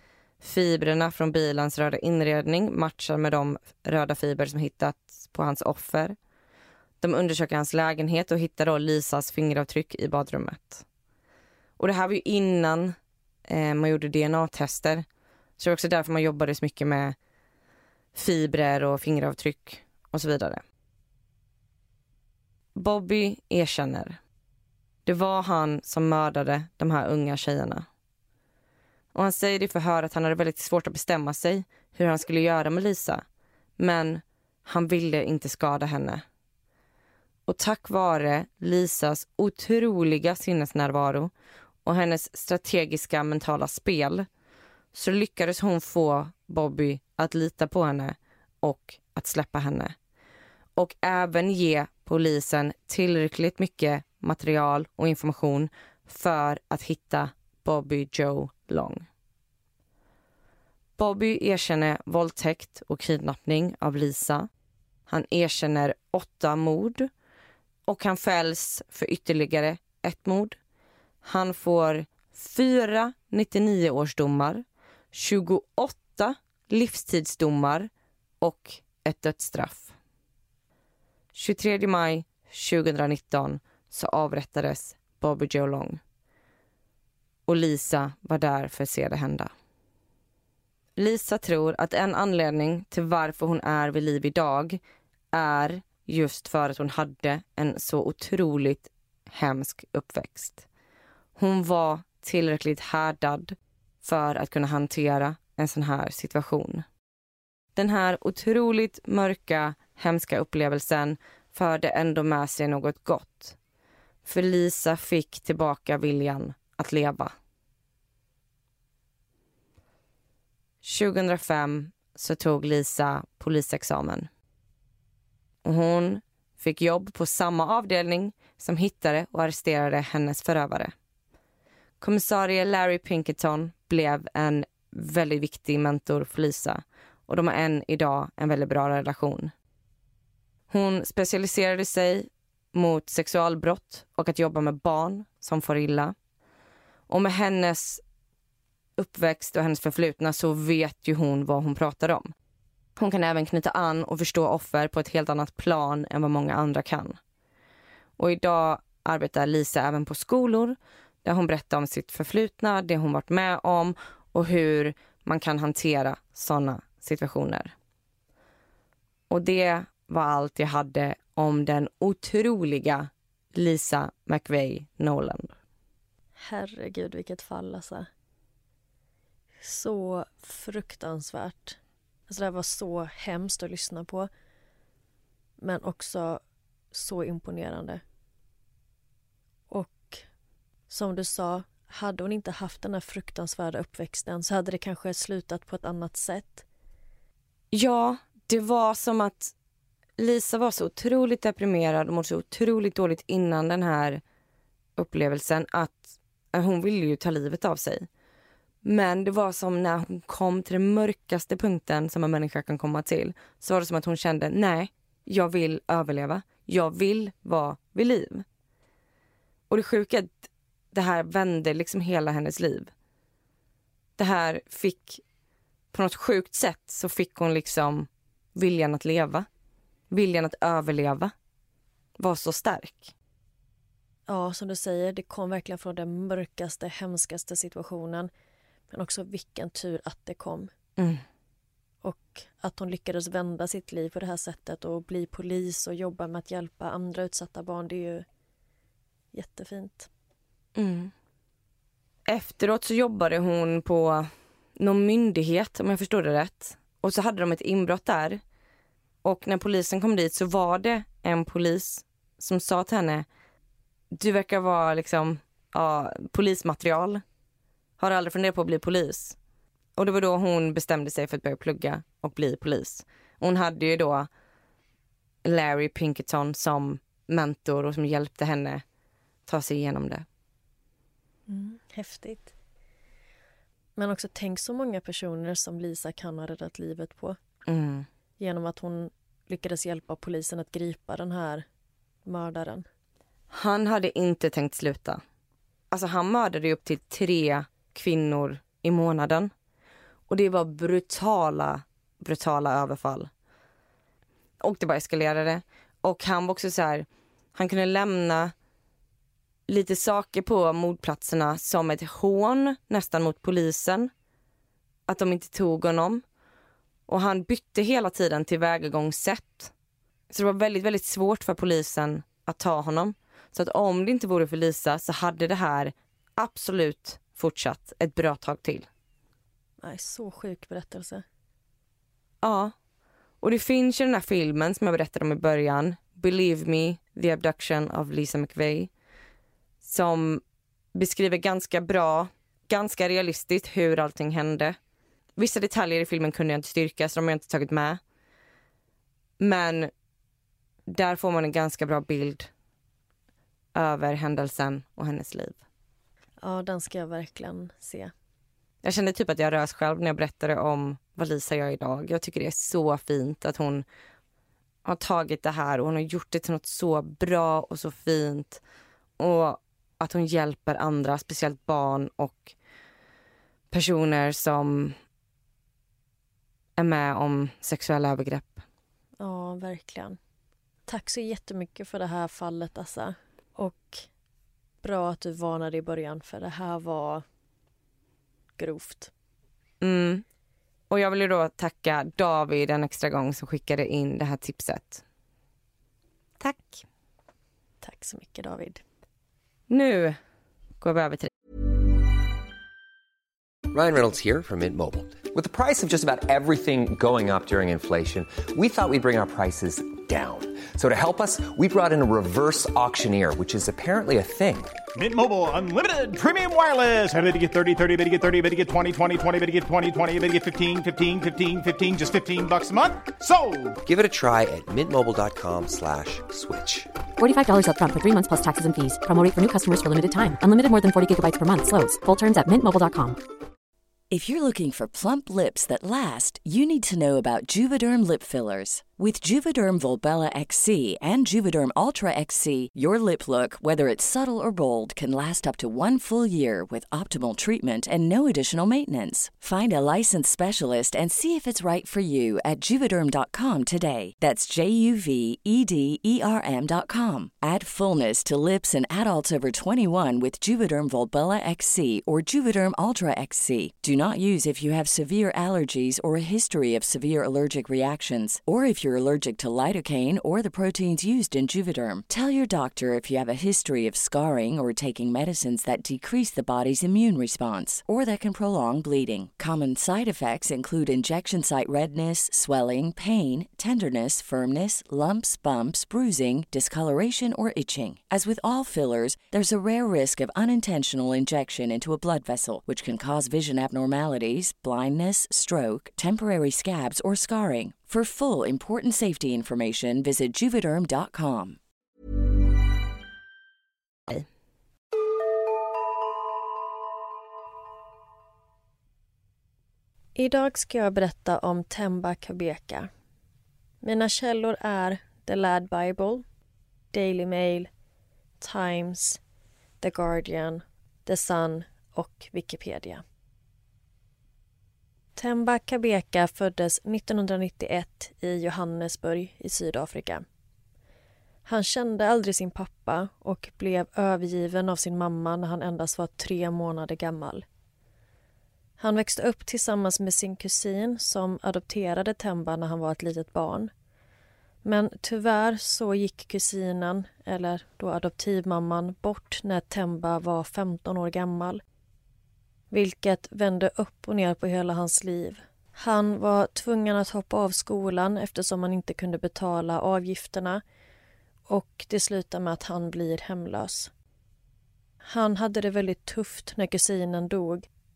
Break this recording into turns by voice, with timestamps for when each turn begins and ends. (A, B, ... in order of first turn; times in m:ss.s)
0:00.4-0:06.2 A
0:07.0-0:10.8 A
0:11.8-0:13.0 A
0:13.5-0:15.1 A
0:15.6-0:17.2 A
0:18.1-0:20.6 A
0:22.7-0:24.2 A
0:25.1-0:27.9 A
0:29.1-0:33.2 A
0:33.8-0:36.2 A
0:37.5-0:41.3 A
0:41.8-0:44.3 A
0:44.9-0:50.0 A
0:50.8-0:59.1 A
1:01.0-1:04.5 A
1:05.1-1:07.1 A
1:07.9-1:10.6 A
1:11.2-1:17.9 A
1:18.4-1:19.9 A
1:21.3-1:26.0 A
1:27.5-1:29.5 A
1:31.0-1:34.8 A
1:35.3-1:40.6 A
1:41.4-1:46.8 A
1:47.8-1:53.6 A
1:54.2-1:57.3 A
2:00.8-2:04.3 A
2:05.6-2:10.9 A
2:12.0-2:19.5 A
2:20.7-2:26.1 A
2:27.1-2:28.0 A
2:29.0-2:32.3 A
2:33.0-2:37.2 A
2:38.2-2:47.7 A
2:49.3-2:55.5 A
2:56.4-2:58.1 B
2:59.6-3:01.8 B
3:02.3-3:04.3 B
3:05.6-3:06.4 B
3:06.9-3:08.0 B
3:09.7-3:10.2 B
3:10.9-3:16.6 B
3:17.7-3:19.5 A
3:20.2-3:24.2 A
3:25.0-3:28.1 A
3:28.8-3:38.4 A
3:39.7-3:42.9 A
3:44.2-3:45.2 A
3:45.9-3:49.5 A
3:50.1-3:51.3 A
3:52.2-3:53.1 A
3:54.3-3:58.3 B
3:58.9-4:00.7 B
4:01.0-4:01.2 A
4:02.0-4:08.2 B
4:09.3-4:10.1 B
4:10.8-4:11.1 A
4:12.3-4:18.4 A
4:19.2-4:23.3 A
4:24.1-4:27.2 A
4:28.0-4:29.4 A
4:30.0-4:34.3 A
4:35.4-4:38.8 A
4:39.4-4:40.2 A
4:41.5-4:42.5 B
4:44.0-4:47.4 B
4:47.6-4:48.1 A
4:48.4-4:51.6 B
4:52.2-4:52.9 B
4:53.5-4:55.2 A
4:55.9-4:59.5 A
5:00.3-5:03.3 A
5:04.6-5:08.5 A
5:09.7-5:14.1 A
5:15.1-5:16.2 A
5:17.1-5:19.7 A
5:20.3-5:28.9 A
5:29.8-5:31.2 B
5:32.4-5:32.7 A
5:33.4-5:38.9 A
5:39.8-5:40.4 A
5:40.9-5:44.8 A
5:45.4-5:48.0 A
5:49.4-5:49.9 A
5:50.9-5:52.5 A
5:53.7-5:55.6 A
5:56.4-5:58.1 B
5:58.8-6:03.9 A
6:04.8-6:08.6 A
6:09.2-6:12.6 A
6:13.7-6:15.0 A
6:16.8-6:18.6 A
6:19.2-6:20.2 B
6:20.9-6:24.1 B
6:24.8-6:27.2 B
6:28.6-6:29.1 B
6:29.8-6:30.2 A
6:30.9-6:35.0 A
6:36.4-6:36.8 A
6:37.8-6:38.8 B
6:39.7-6:40.2 A
6:40.8-6:41.3 A
6:43.7-6:54.8 C
6:54.9-7:03.7 D
7:03.8-7:06.9 C
7:07.2-7:13.2 E
7:14.1-8:21.6 F
8:30.1-8:32.9 B
8:33.8-8:36.2 B
8:36.9-8:37.7 B
8:38.4-8:39.2 B
8:39.8-8:43.0 B
8:45.2-8:50.2 B
8:51.4-8:57.4 B
8:58.8-9:03.7 B
9:04.6-9:11.6 B
9:12.7-9:20.6 B
9:21.5-9:23.9 B
9:25.0-9:27.7 B